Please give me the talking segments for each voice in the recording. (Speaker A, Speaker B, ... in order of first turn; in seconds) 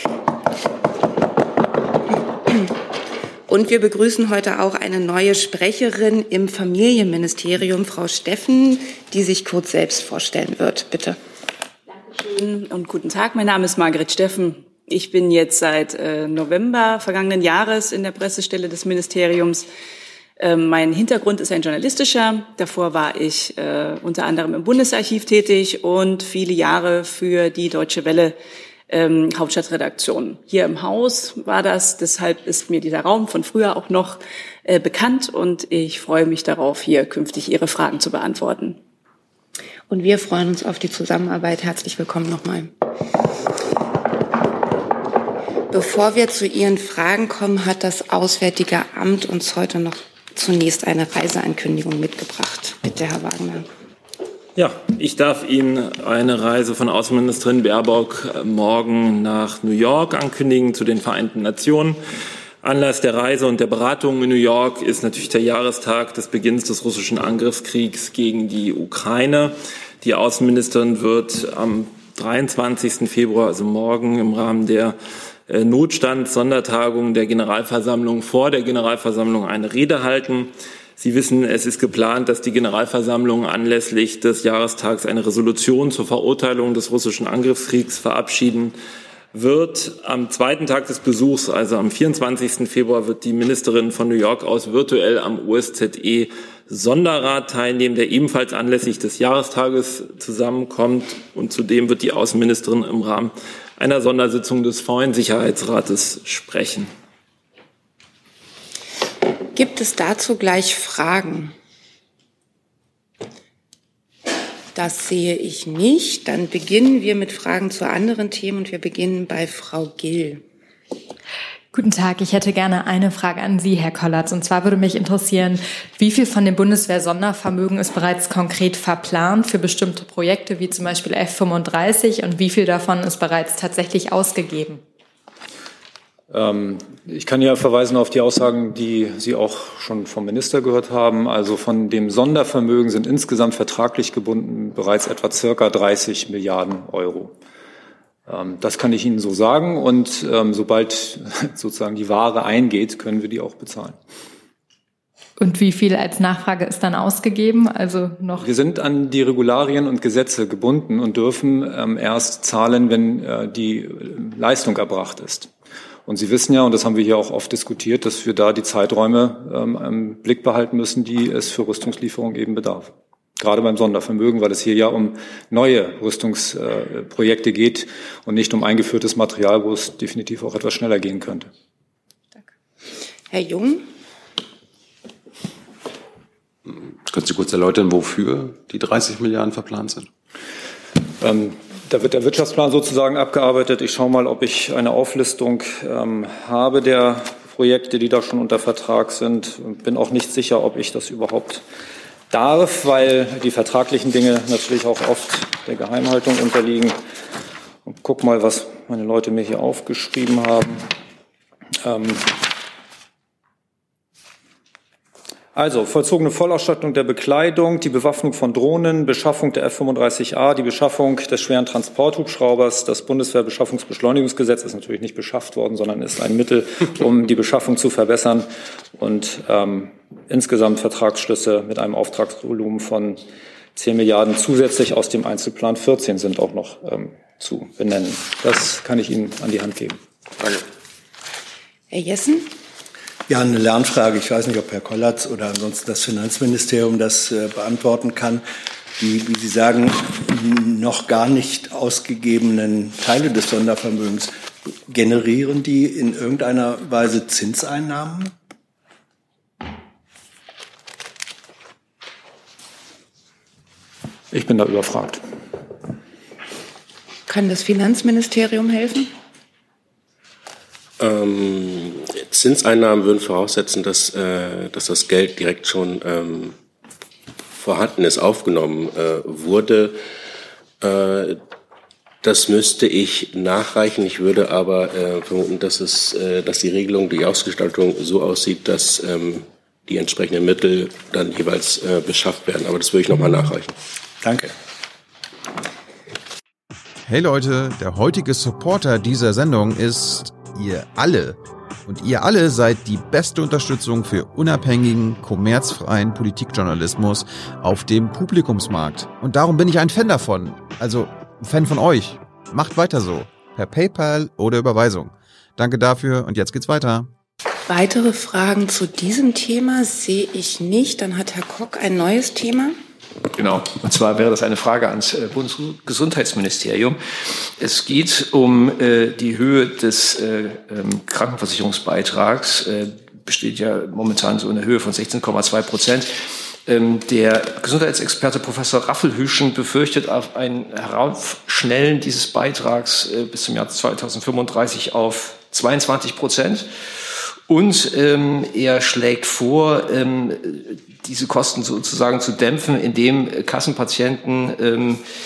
Speaker A: 3.5-11.2, 39.9-42.7, 45.7-53.6, 109.5-111.5, 114.7-120.4, 183.3-183.8, 241.9-242.5, 267.3-269.1, 317.7-322.7
Speaker B: 12.2-19.6, 20.4-28.4, 28.9-38.8
Speaker C: 54.5-62.0, 62.6-75.0, 75.5-88.7, 89.3-106.9
Speaker D: 121.7-134.8, 155.4-158.5
Speaker E: 136.3-147.3, 148.3-153.9, 158.4-165.5, 166.1-181.5, 191.2-201.6, 202.3-207.0, 207.8-210.9, 211.8-212.4, 215.5-233.2, 233.8-240.0, 264.3-265.2
Speaker F: 186.7-190.1
Speaker G: 243.3-248.4, 249.0-254.3, 254.9-258.3, 294.2-294.5
Speaker H: 271.0-276.6, 277.5-280.0, 280.8-281.4, 282.2-293.7
Speaker I: 297.0-317.1
Speaker J: 323.3-355.0